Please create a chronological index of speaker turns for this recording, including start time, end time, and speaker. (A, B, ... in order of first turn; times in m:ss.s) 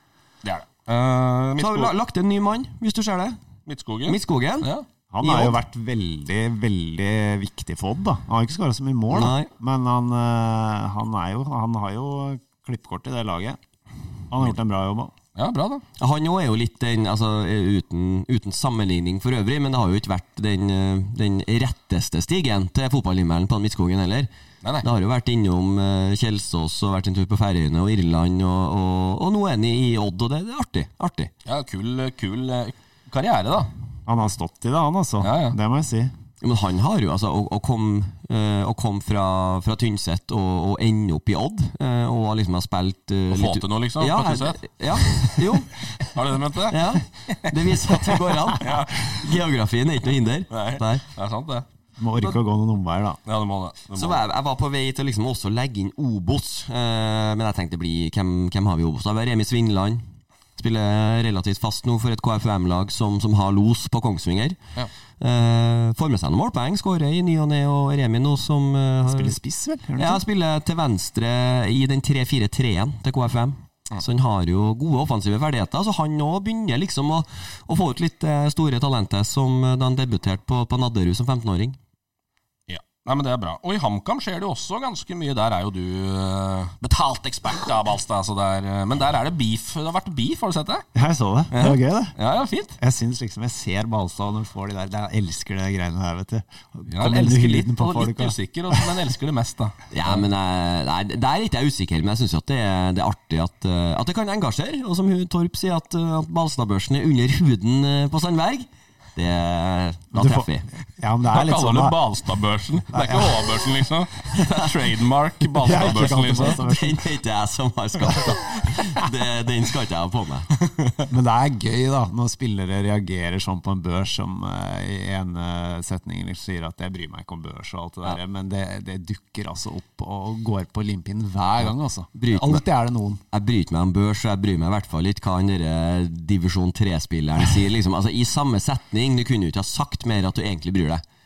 0:00.4-0:01.9 A
0:01.6-0:03.4 B
0:03.7-0:04.9 A
0:04.1-0:04.7 B
0:05.1-0:13.6 C
0:05.2-0:05.6 B
0:09.1-0:09.5 B
0:14.3-0:15.1 C
0:15.4-0:15.8 A
0:16.0-0:24.3 B
0:24.8-0:31.3 B
0:31.4-0:33.7 A
0:34.1-0:36.1 C
0:35.2-0:35.6 A
0:36.4-0:45.8 B
0:43.3-0:49.2 A
0:46.7-0:51.0 B
0:50.5-0:51.6 A
0:52.0-0:53.2 C
0:53.3-0:54.2 A
0:53.9-1:00.0 B
1:00.6-1:04.6 B
1:05.2-1:09.4 B
1:09.1-1:10.2 C
1:10.0-1:21.8 B
1:22.7-1:30.8 A
1:31.0-1:32.1 C
1:31.5-1:32.8 A
1:32.8-1:38.9 C
1:36.9-1:40.2 A
1:39.9-1:50.7 B
1:50.1-1:52.0 C
1:51.3-1:56.6 A
1:52.9-1:53.6 C
1:55.6-1:57.1 C
1:55.7-2:00.5 B
2:00.6-2:01.0 A
2:01.1-2:13.2 C
2:12.2-2:12.6 B
2:13.3-2:21.0 B